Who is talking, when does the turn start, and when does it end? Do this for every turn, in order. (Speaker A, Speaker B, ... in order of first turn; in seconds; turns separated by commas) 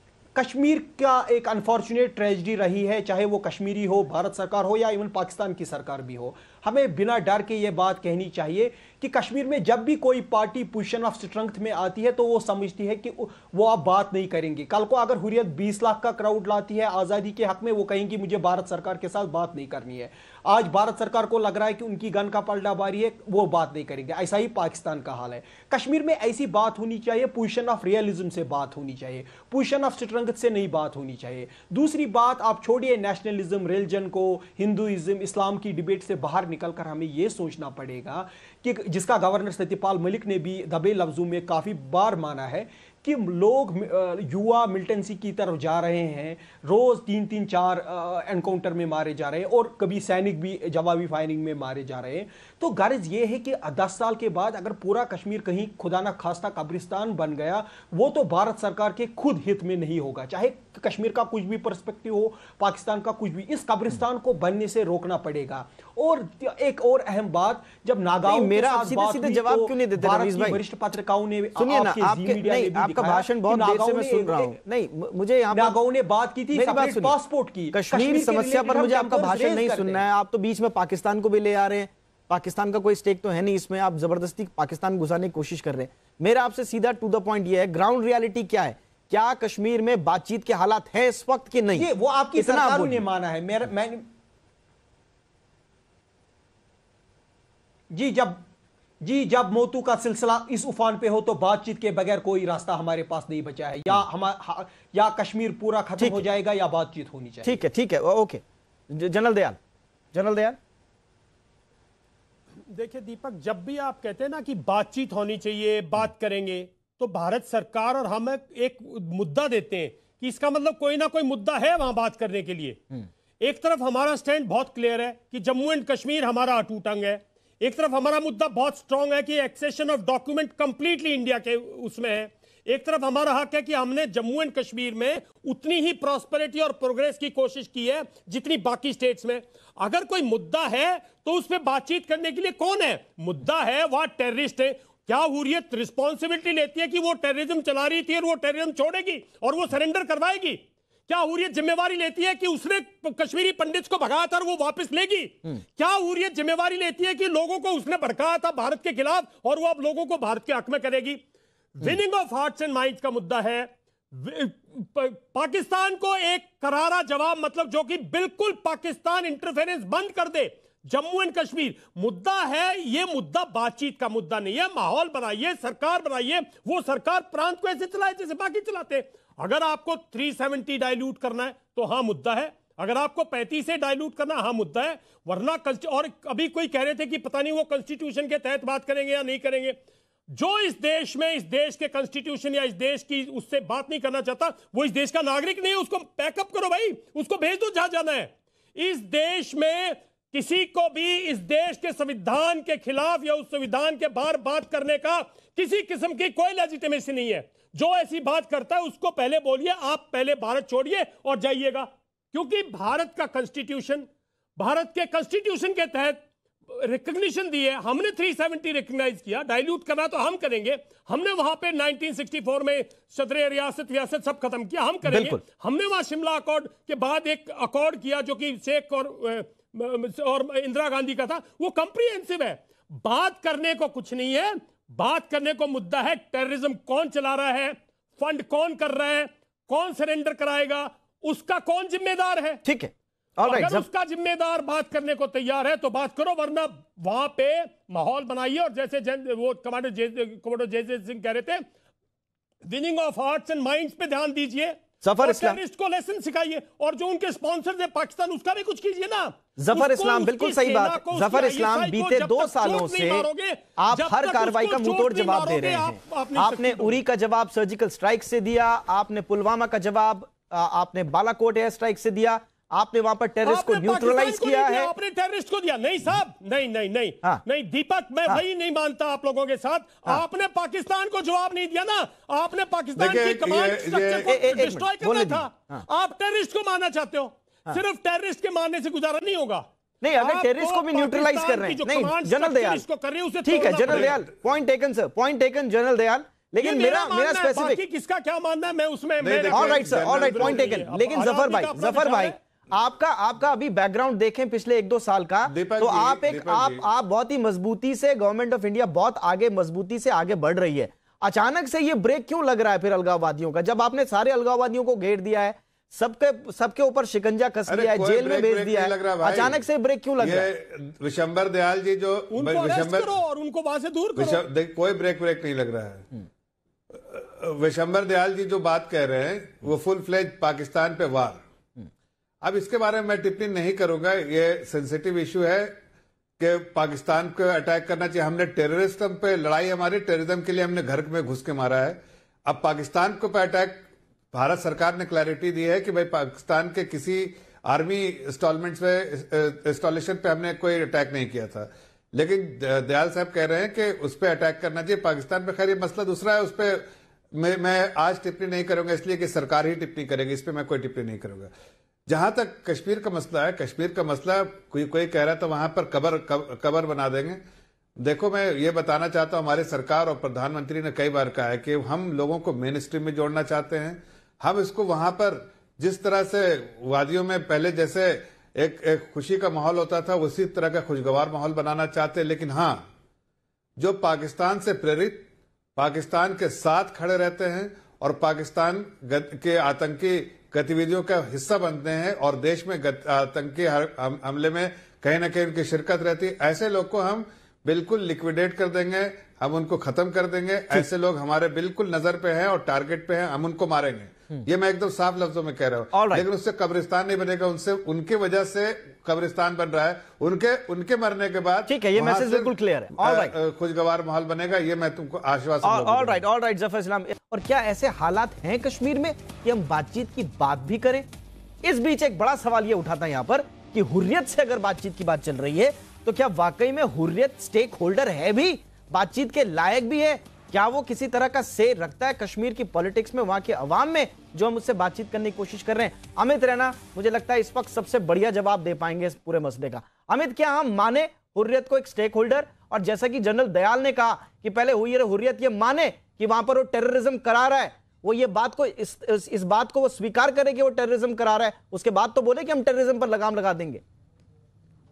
Speaker A: 0.3-74.6, Speaker B: 68.2-70.6, Speaker B: 71.5-75.8, Speaker A: 75.5-80.0, Speaker B: 76.5-77.2, Speaker B: 77.7-93.0, Speaker A: 91.7-94.0, Speaker A: 97.9-98.4, Speaker A: 99.0-107.5, Speaker B: 106.0-106.2, Speaker B: 107.4-109.6, Speaker B: 110.1-110.6, Speaker C: 112.7-122.8, Speaker C: 123.4-161.2, Speaker C: 161.7-189.8, Speaker C: 190.3-242.6, Speaker B: 225.1-225.4, Speaker B: 242.6-243.9, Speaker C: 243.4-251.6, Speaker C: 252.7-267.0, Speaker B: 255.0-255.6, Speaker B: 259.6-274.9, Speaker C: 273.4-289.6, Speaker D: 283.0-284.3, Speaker B: 284.2-285.8, Speaker B: 290.0-292.8, Speaker C: 290.2-294.2, Speaker B: 293.4-297.8, Speaker D: 293.8-294.2, Speaker C: 296.6-302.4, Speaker D: 299.2-300.9, Speaker B: 299.5-320.5, Speaker D: 305.5-306.8, Speaker D: 317.7-319.6, Speaker D: 320.2-323.1, Speaker C: 322.3-324.4, Speaker D: 324.1-326.1, Speaker D: 326.9-331.4, Speaker D: 332.4-335.8, Speaker D: 336.4-361.5, Speaker D: 362.1-367.4, Speaker D: 368.0-382.9, Speaker D: 383.8-416.2, Speaker B: 405.9-406.3, Speaker B: 411.7-413.3, Speaker B: 415.6-421.1, Speaker B: 421.6-453.8